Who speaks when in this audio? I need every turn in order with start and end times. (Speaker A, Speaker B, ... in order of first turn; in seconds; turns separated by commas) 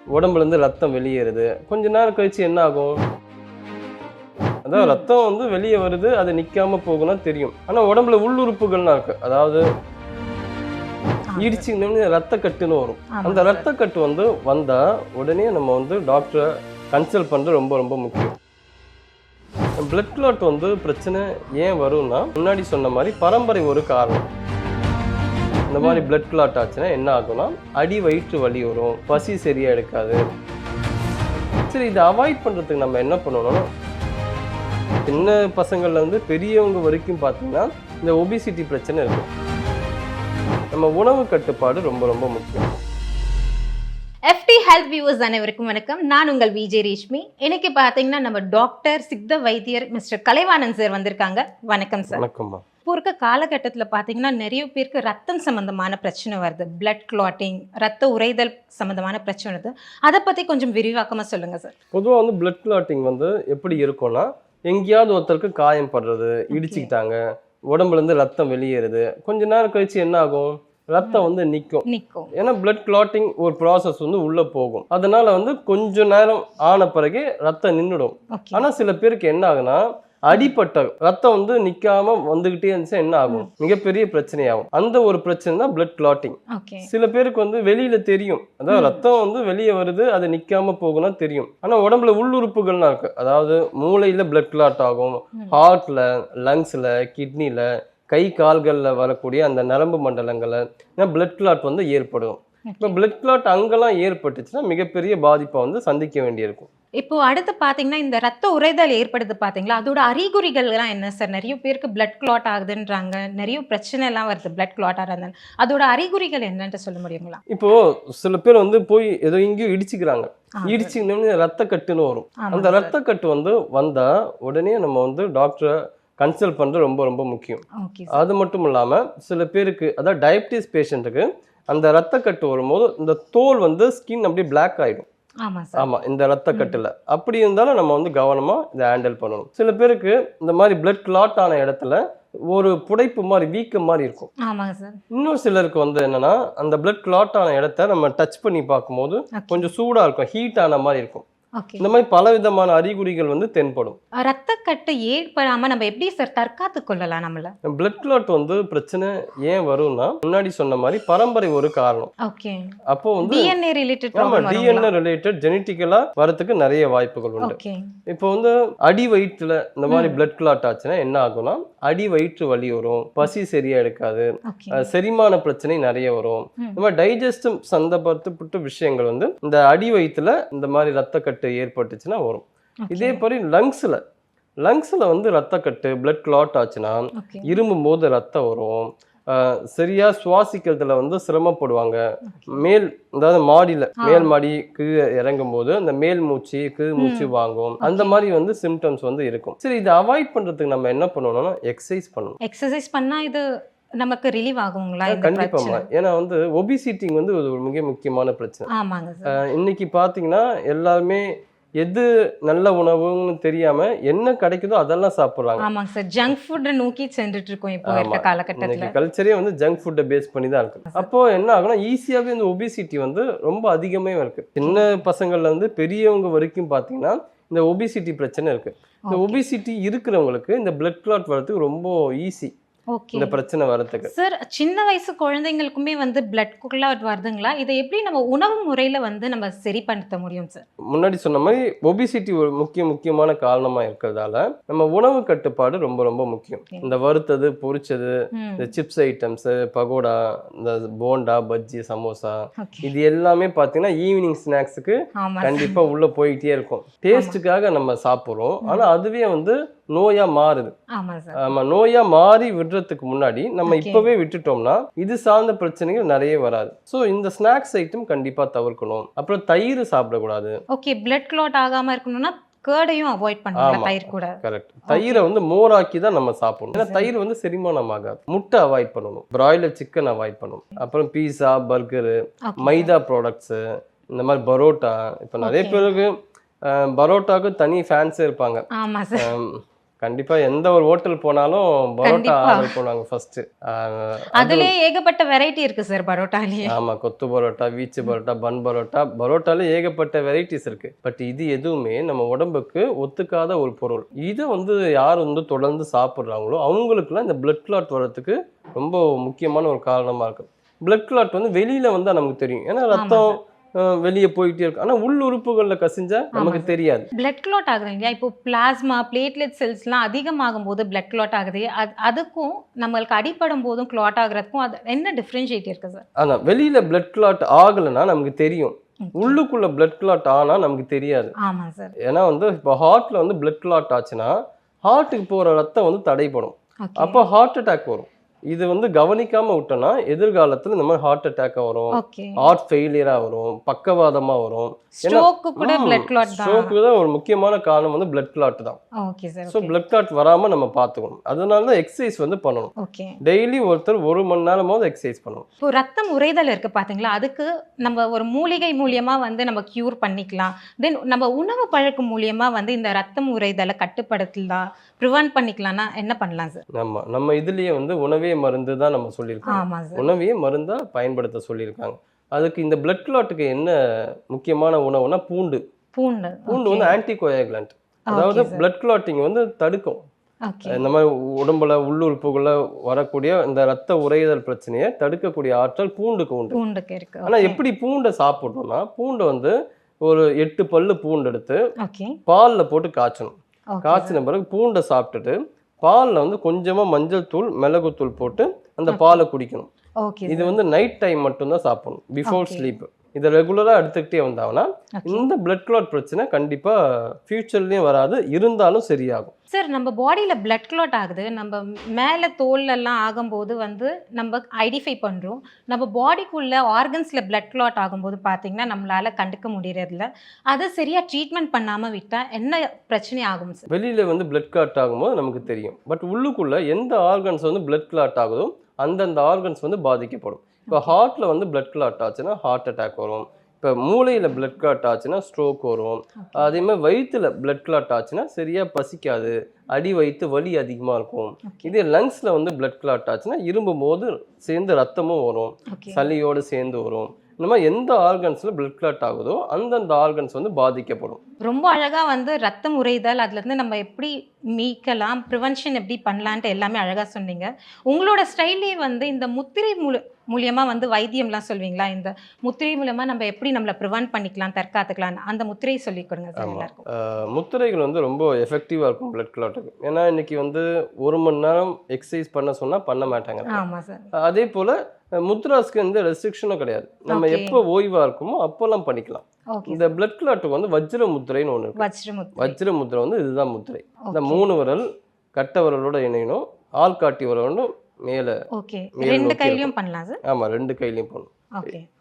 Speaker A: 0.1-3.0, Speaker A: 4.7-9.6, Speaker B: 4.7-5.0, Speaker B: 11.3-11.6, Speaker A: 11.4-18.3, Speaker B: 13.1-13.6, Speaker A: 19.8-24.2, Speaker A: 25.7-30.2, Speaker B: 25.8-26.1, Speaker A: 31.7-33.7, Speaker A: 35.1-39.3, Speaker B: 35.1-35.4, Speaker A: 40.7-42.8, Speaker B: 44.3-52.2, Speaker A: 52.1-52.6, Speaker B: 52.9-61.7, Speaker A: 61.9-67.2, Speaker B: 66.5-66.9, Speaker A: 67.7-106.7, Speaker B: 71.0-71.3, Speaker B: 71.8-72.3, Speaker B: 78.3-78.6, Speaker B: 86.5-86.9, Speaker B: 88.7-89.0, Speaker B: 102.7-103.0, Speaker B: 107.0-117.4, Speaker A: 117.5-135.1, Speaker B: 120.5-120.9, Speaker B: 122.4-122.9, Speaker B: 127.8-128.2, Speaker B: 135.4-135.8, Speaker A: 135.8-144.3, Speaker B: 136.5-136.8, Speaker B: 144.4-145.0, Speaker A: 145.1-151.2, Speaker B: 149.3-149.7, Speaker B: 151.6-151.8, Speaker A: 151.8-154.0, Speaker B: 154.2-157.5, Speaker A: 157.6-162.1, Speaker B: 162.2-164.9, Speaker A: 162.9-163.5, Speaker A: 164.1-167.6, Speaker B: 167.4-167.9, Speaker A: 168.1-184.0, Speaker B: 169.9-170.2, Speaker B: 174.5-174.8, Speaker B: 182.9-183.2, Speaker A: 184.6-192.0, Speaker B: 187.2-187.6, Speaker B: 192.3-192.7, Speaker A: 192.5-202.4, Speaker B: 194.0-194.3, Speaker B: 197.0-197.3, Speaker B: 197.8-198.2, Speaker B: 202.4-203.4, Speaker B: 204.0-205.8, Speaker A: 205.0-208.7, Speaker B: 208.7-209.4, Speaker A: 209.3-211.2, Speaker A: 211.8-215.7, Speaker B: 215.6-218.9, Speaker A: 217.9-232.5, Speaker B: 224.6-224.9, Speaker B: 229.0-229.4, Speaker B: 232.9-233.4, Speaker A: 233.1-234.1, Speaker B: 234.0-240.6, Speaker A: 240.9-260.7, Speaker B: 248.3-248.7, Speaker B: 252.6-252.9, Speaker B: 255.2-255.8, Speaker B: 257.1-257.4, Speaker B: 260.9-261.4, Speaker A: 261.4-270.6, Speaker B: 263.7-264.1, Speaker B: 270.7-275.2, Speaker A: 273.6-283.6, Speaker B: 276.7-277.1, Speaker B: 282.5-282.9, Speaker A: 284.1-286.1, Speaker B: 285.4-285.8, Speaker A: 286.7-294.7, Speaker B: 288.7-289.3, Speaker B: 292.0-292.8, Speaker B: 294.4-296.7, Speaker A: 296.6-317.1, Speaker B: 312.9-313.3, Speaker B: 316.3-326.0, Speaker A: 326.2-331.3, Speaker B: 329.0-329.4, Speaker B: 331.4-331.9, Speaker A: 332.0-334.3, Speaker A: 334.9-348.8, Speaker B: 336.8-337.2, Speaker B: 341.9-342.5, Speaker B: 344.9-346.7, Speaker B: 349.0-349.8, Speaker A: 349.5-355.4, Speaker B: 352.8-353.2, Speaker B: 355.6-366.6, Speaker A: 366.7-373.8, Speaker B: 369.5-370.1, Speaker A: 374.3-375.6, Speaker B: 375.9-376.9, Speaker A: 376.5-380.0, Speaker B: 378.1-378.6, Speaker B: 380.4-380.8, Speaker A: 380.7-386.6, Speaker B: 386.5-387.6, Speaker A: 387.2-389.5, Speaker A: 390.0-391.6, Speaker B: 391.8-392.2, Speaker A: 392.2-399.7, Speaker B: 393.7-394.2, Speaker B: 398.9-399.2, Speaker B: 400.0-400.6, Speaker A: 400.3-409.3, Speaker B: 402.3-402.7, Speaker B: 404.9-405.2, Speaker B: 409.5-423.7, Speaker A: 423.7-451.2, Speaker B: 436.2-436.6, Speaker B: 441.4-441.8, Speaker B: 445.7-446.1, Speaker B: 451.4-466.8, Speaker A: 466.4-473.6, Speaker B: 473.5-474.1, Speaker A: 474.1-481.8, Speaker B: 477.1-477.6, Speaker B: 479.5-479.9, Speaker B: 481.8-482.6, Speaker A: 482.4-488.3, Speaker B: 484.0-484.4, Speaker B: 488.5-490.2, Speaker A: 489.0-489.7, Speaker A: 490.2-491.3, Speaker B: 491.5-491.9